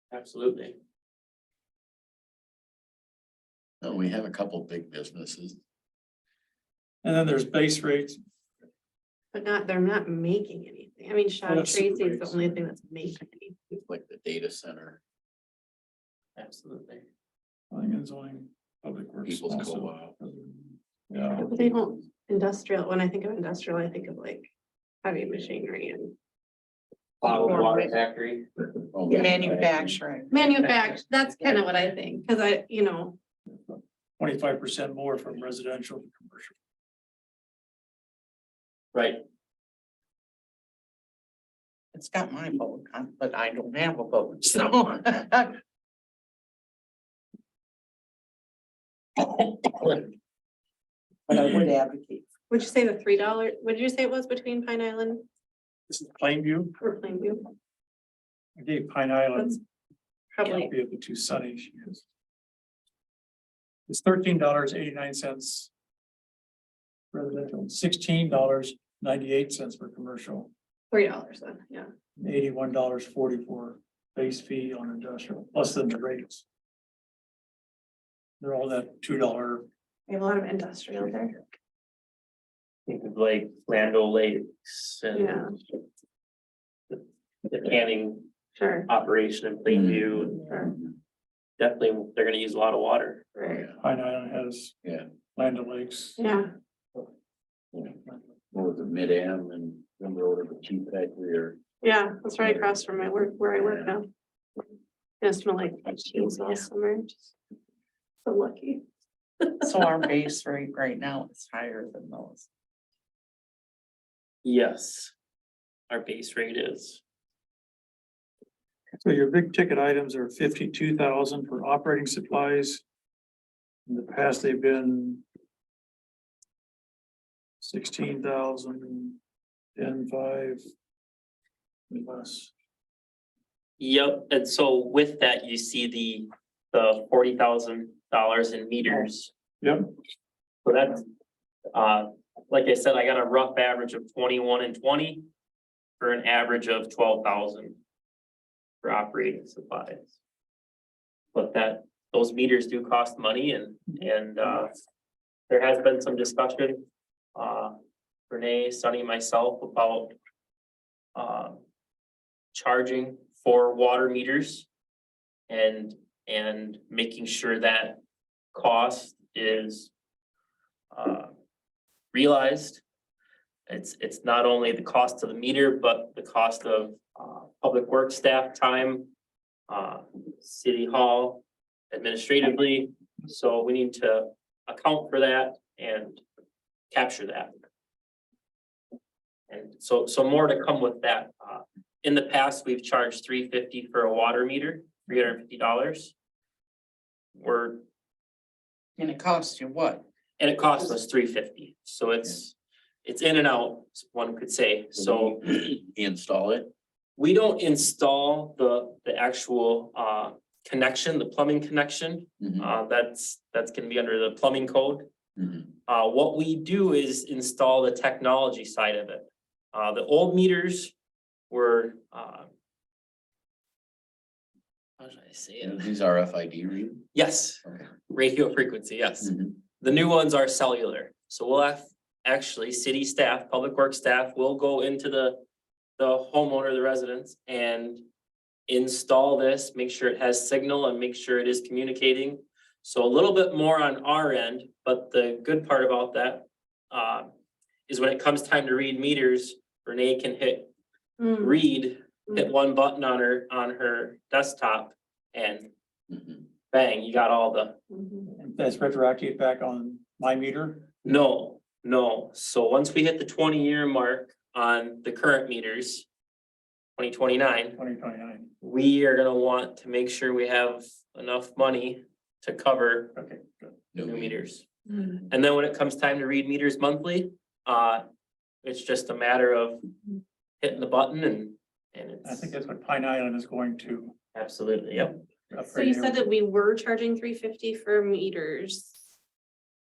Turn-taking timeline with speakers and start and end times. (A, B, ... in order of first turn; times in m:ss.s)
0:00.1-0:00.8 A
0:03.8-0:05.6 B
0:07.0-0:08.2 C
0:09.3-0:13.6 D
0:11.4-0:12.6 C
0:13.7-0:15.0 B
0:16.4-0:17.0 A
0:17.7-0:21.5 C
0:19.3-0:20.1 B
0:21.4-0:24.5 D
0:25.0-0:26.1 D
0:27.2-0:28.5 A
0:27.2-0:27.7 D
0:28.9-0:30.0 B
0:29.1-0:30.4 E
0:30.3-0:33.2 D
0:33.5-0:36.6 C
0:38.9-0:39.2 A
0:41.9-0:45.6 E
0:49.6-0:50.0 A
0:51.3-0:52.3 E
0:52.5-0:55.2 D
0:55.9-0:56.7 C
0:56.8-0:57.4 D
0:58.6-0:59.6 C
1:00.3-1:00.7 D
1:00.4-1:02.0 C
1:03.9-1:05.7 C
1:07.1-1:10.5 C
1:10.9-1:11.9 D
1:12.2-1:16.4 C
1:18.4-1:19.7 C
1:20.1-1:21.4 D
1:22.9-1:25.5 A
1:25.2-1:25.5 D
1:26.9-1:28.3 A
1:28.6-1:28.9 D
1:28.9-1:30.4 A
1:29.7-1:30.8 B
1:30.5-1:30.7 D
1:31.6-1:33.3 A
1:33.4-1:33.7 D
1:33.5-1:33.8 B
1:33.8-1:34.8 C
1:35.4-1:36.2 C
1:36.2-1:36.5 D
1:37.7-1:38.0 B
1:38.5-1:41.6 B
1:41.8-1:44.1 D
1:42.4-1:44.0 B
1:45.2-1:47.3 D
1:48.2-1:48.8 D
1:49.6-1:52.5 E
1:54.4-1:55.1 A
1:55.9-1:57.0 A
1:59.0-2:02.8 C
2:03.9-2:05.2 C
2:07.6-2:09.2 C
2:09.8-2:10.6 C
2:11.9-2:12.5 C
2:13.8-2:19.3 A
2:19.6-2:19.9 C
2:20.6-2:21.0 A
2:21.7-2:25.2 A
2:26.0-2:27.8 A
2:28.8-2:30.1 A
2:31.3-2:34.7 A
2:35.5-2:36.8 A
2:37.4-2:37.7 A
2:38.3-2:40.1 A
2:41.2-2:41.6 A
2:42.5-2:44.7 A
2:45.5-2:48.0 A
2:48.5-2:49.9 A
2:50.9-2:51.3 A
2:52.1-2:52.8 A
2:53.7-2:59.1 A
2:59.7-3:06.2 A
3:06.9-3:07.6 A
3:09.5-3:16.1 A
3:17.4-3:17.8 A
3:19.0-3:20.0 E
3:20.4-3:25.4 A
3:25.0-3:26.7 B
3:27.2-3:35.1 A
3:32.4-3:32.7 B
3:35.4-3:35.7 B
3:35.9-3:40.9 A
3:41.5-3:42.5 A
3:45.0-3:45.9 A
3:45.6-3:47.1 B
3:47.1-3:55.4 A
3:49.2-3:49.6 B
3:56.0-3:58.0 A
3:58.7-4:07.3 A
4:07.9-4:10.7 A
4:11.2-4:11.6 D
4:11.4-4:15.7 A
4:16.1-4:16.4 B
4:16.7-4:17.8 A
4:17.9-4:18.3 D
4:18.4-4:20.9 C
4:21.0-4:26.1 A
4:27.0-4:27.8 A
4:27.8-4:28.5 C
4:28.6-4:33.2 A
4:33.2-4:33.8 C
4:33.9-4:34.4 B
4:34.0-4:34.7 A
4:35.3-4:38.0 A
4:38.6-4:39.9 A
4:40.6-4:42.5 A
4:42.2-4:44.2 C
4:44.4-4:45.1 A
4:45.5-4:46.3 C
4:45.7-4:49.0 D